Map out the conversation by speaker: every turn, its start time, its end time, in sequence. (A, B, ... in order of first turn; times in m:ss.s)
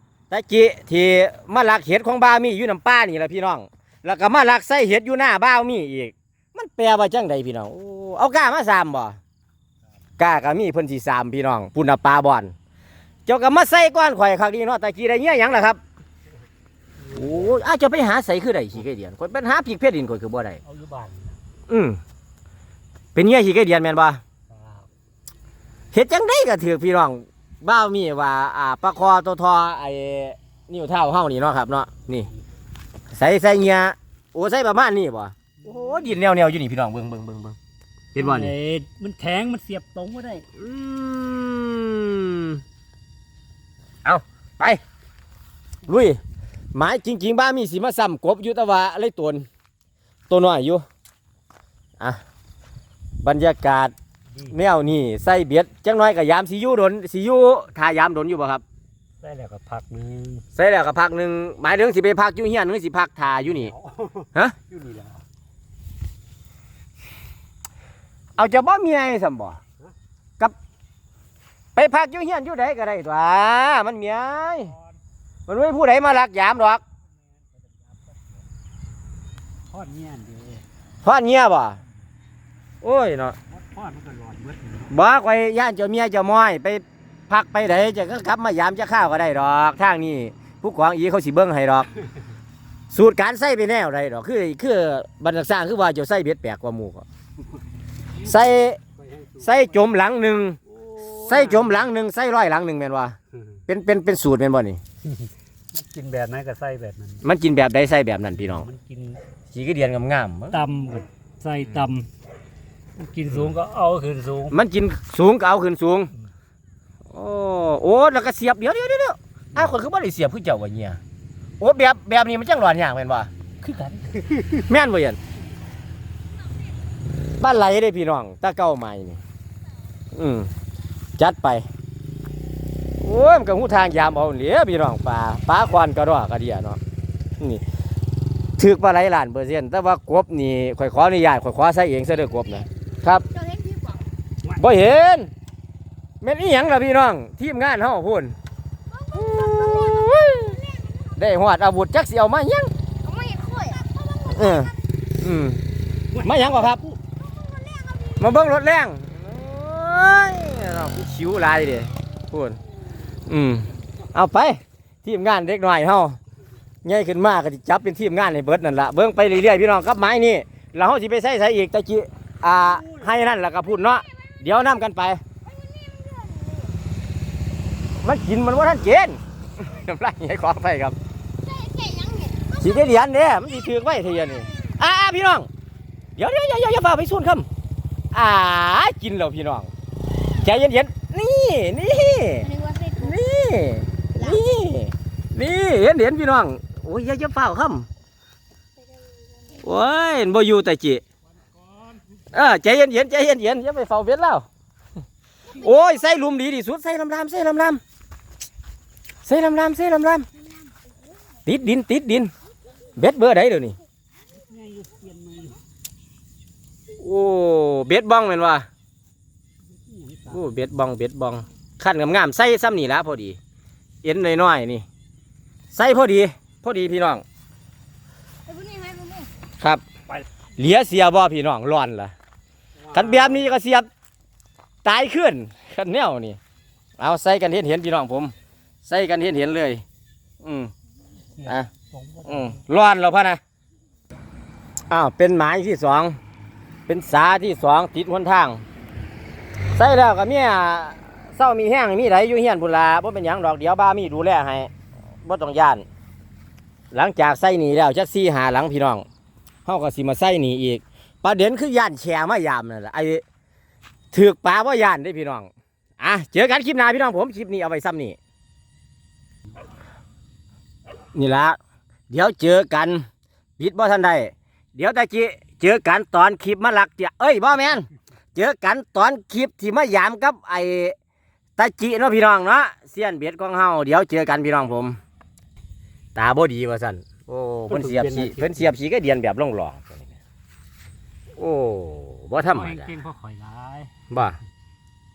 0:00.3-0:09.2 A
0:10.2-0:12.5 A
0:13.2-0:15.8 A
0:17.1-0:20.6 A
0:20.7-0:21.4 B
0:21.7-0:22.0 A
0:23.1-0:24.2 A
0:24.5-0:24.9 B
0:25.9-0:32.3 A
0:33.1-0:37.6 A
0:38.1-0:38.6 A
0:38.2-0:40.5 B
0:40.5-0:42.6 A
0:44.0-0:44.8 A
0:45.8-0:46.2 A
0:46.7-0:49.5 A
0:50.3-0:50.8 A
0:53.2-0:53.9 A
0:54.4-0:58.6 A
0:59.2-1:00.4 B
1:00.5-1:03.7 A
1:03.7-1:05.2 B
1:08.4-1:09.6 A
1:11.8-1:14.8 A
1:15.5-1:16.8 A
1:19.7-1:20.6 B
1:21.0-1:21.8 A
1:22.8-1:23.4 A
1:23.6-1:24.9 B
1:24.9-1:31.9 A
1:32.9-1:37.0 A
1:38.2-1:38.8 A
1:39.1-1:39.4 B
1:39.4-1:43.2 A
1:41.0-1:41.7 B
1:43.7-1:44.8 A
1:45.7-1:47.2 B
1:47.2-1:48.7 A
1:48.6-1:49.2 B
1:49.5-1:50.6 A
1:50.5-1:52.1 B
1:53.0-1:54.6 B
1:54.5-1:56.1 A
1:57.1-2:01.0 A
2:01.6-2:03.3 A
2:03.6-2:04.5 B
2:04.5-2:05.2 A
2:07.4-2:09.2 A
2:10.1-2:10.5 A
2:11.2-2:11.7 A
2:13.0-2:16.8 A
2:17.4-2:17.6 A
2:18.6-2:23.3 A
2:23.3-2:24.0 C
2:24.5-2:25.3 A
2:26.2-2:28.4 A
2:28.9-2:31.0 C
2:29.0-2:32.7 A
2:33.0-2:34.7 C
2:34.2-2:36.8 A
2:36.2-2:37.1 B
2:37.2-2:38.2 C
2:38.2-2:42.6 A
2:43.2-2:46.2 A
2:46.8-2:55.2 A
2:55.4-2:56.8 C
2:58.0-3:01.0 A
3:01.4-3:02.6 C
3:02.6-3:05.5 A
3:06.1-3:07.5 A
3:08.1-3:17.9 A
3:12.4-3:13.1 C
3:19.6-3:21.0 A
3:22.3-3:24.4 A
3:25.5-3:27.8 A
3:29.2-3:30.3 A
3:31.4-3:32.3 A
3:32.9-3:33.8 A
3:34.3-3:35.6 B
3:37.0-3:38.7 A
3:39.9-3:40.3 B
3:40.2-3:43.4 A
3:44.0-3:44.8 A
3:45.7-3:47.2 A
3:48.5-3:49.3 C
3:50.6-3:52.1 A
3:52.9-3:53.9 A
3:52.9-3:53.2 B
3:54.8-3:56.4 A
3:57.0-3:59.8 A
4:00.4-4:00.7 A
4:01.4-4:01.7 A
4:01.4-4:02.6 B
4:02.2-4:03.4 A
4:04.9-4:06.2 A
4:06.9-4:08.6 A
4:09.7-4:14.7 A
4:15.2-4:15.8 A
4:16.9-4:19.0 A
4:19.6-4:23.2 A
4:24.1-4:28.2 A
4:31.1-4:31.6 A
4:32.1-4:33.0 A
4:33.6-4:41.0 A
4:41.6-4:45.0 A
4:46.1-4:50.2 A
4:47.7-4:48.6 B
4:51.4-4:53.0 A
4:52.5-4:53.9 B
4:54.1-4:54.4 A